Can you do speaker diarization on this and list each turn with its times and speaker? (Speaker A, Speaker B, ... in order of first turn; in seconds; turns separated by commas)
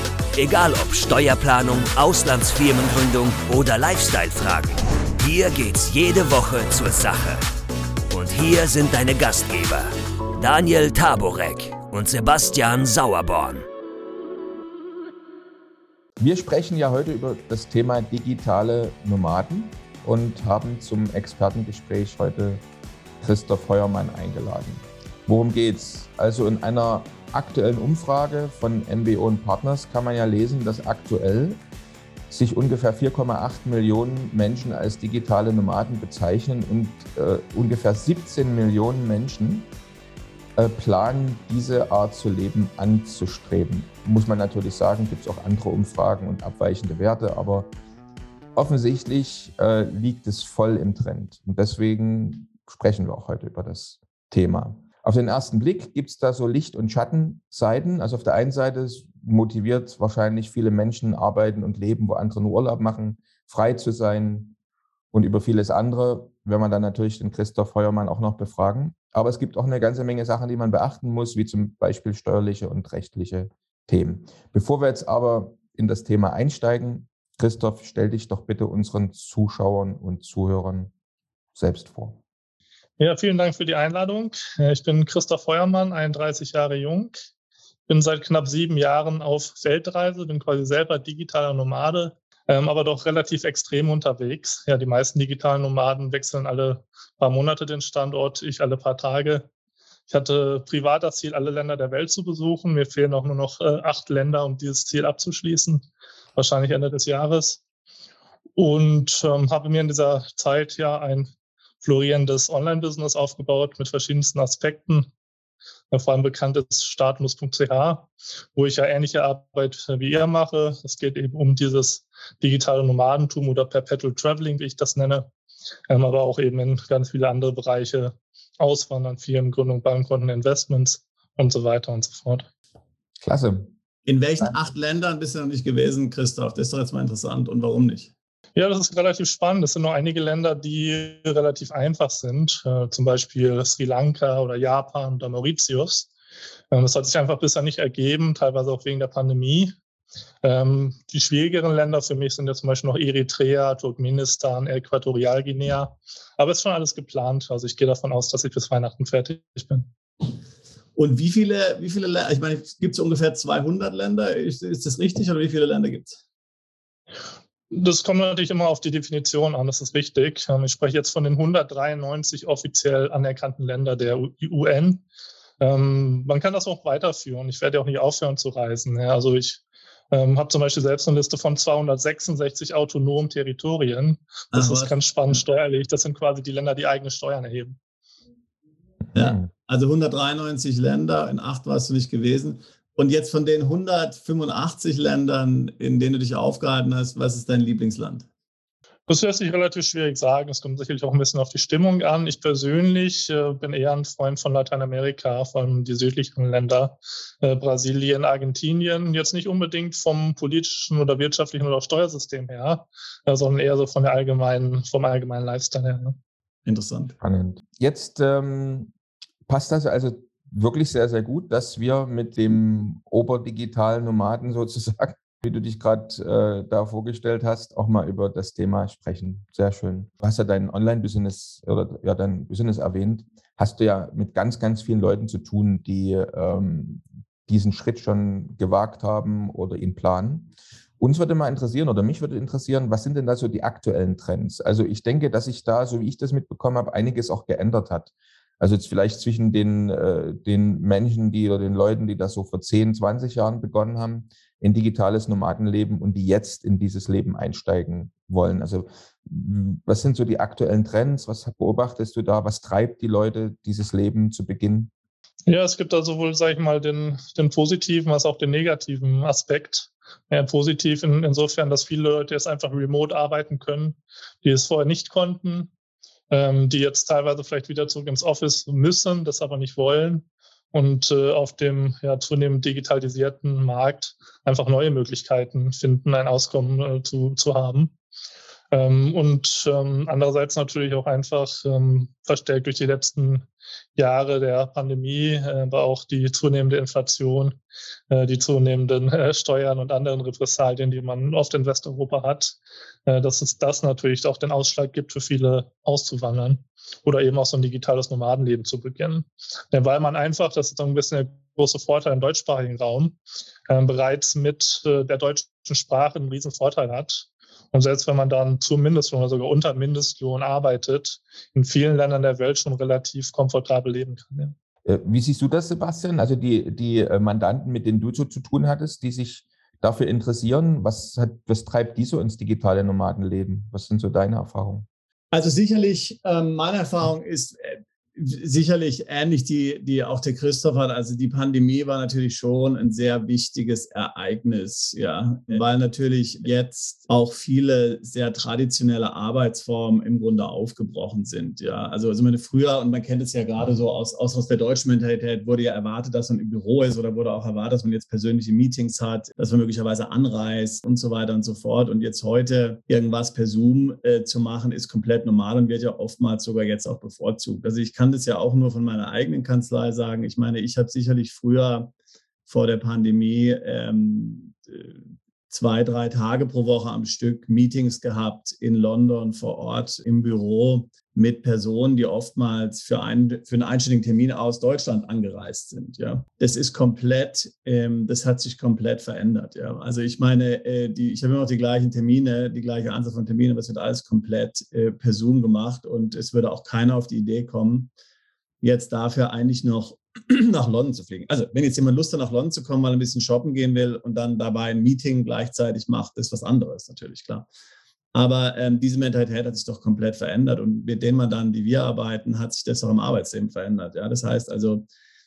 Speaker A: 0.3-7.4, Speaker A: 8.1-13.7, Speaker B: 16.2-22.6, Speaker B: 23.2-31.6, Speaker B: 32.3-39.7, Speaker B: 40.6-47.7, Speaker B: 48.5-64.5, Speaker B: 65.1-80.9, Speaker B: 81.5-82.2, Speaker C: 83.0-87.2, Speaker C: 87.9-99.5, Speaker C: 100.1-105.8, Speaker C: 106.4-107.6, Speaker C: 108.6-111.3, Speaker C: 111.8-115.1, Speaker C: 115.9-125.3, Speaker C: 125.9-132.5, Speaker B: 133.2-133.7, Speaker D: 134.1-138.1, Speaker C: 138.6-146.1, Speaker C: 146.7-149.7, Speaker C: 150.4-159.9, Speaker D: 161.0-166.2, Speaker C: 167.7-175.1, Speaker C: 175.6-187.8, Speaker D: 184.5-184.9, Speaker D: 189.1-198.3, Speaker B: 189.2-189.5, Speaker C: 199.1-216.2, Speaker D: 216.7-217.2, Speaker B: 217.2-218.9, Speaker B: 219.5-264.9, Speaker C: 265.5-275.7, Speaker C: 276.3-287.9, Speaker C: 288.7-293.4, Speaker C: 294.0-297.6, Speaker C: 298.1-313.2, Speaker C: 313.7-324.5, Speaker B: 324.9-334.9, Speaker D: 335.3-371.9, Speaker D: 372.5-375.0, Speaker D: 375.5-397.9, Speaker D: 398.6-407.5, Speaker D: 408.1-414.9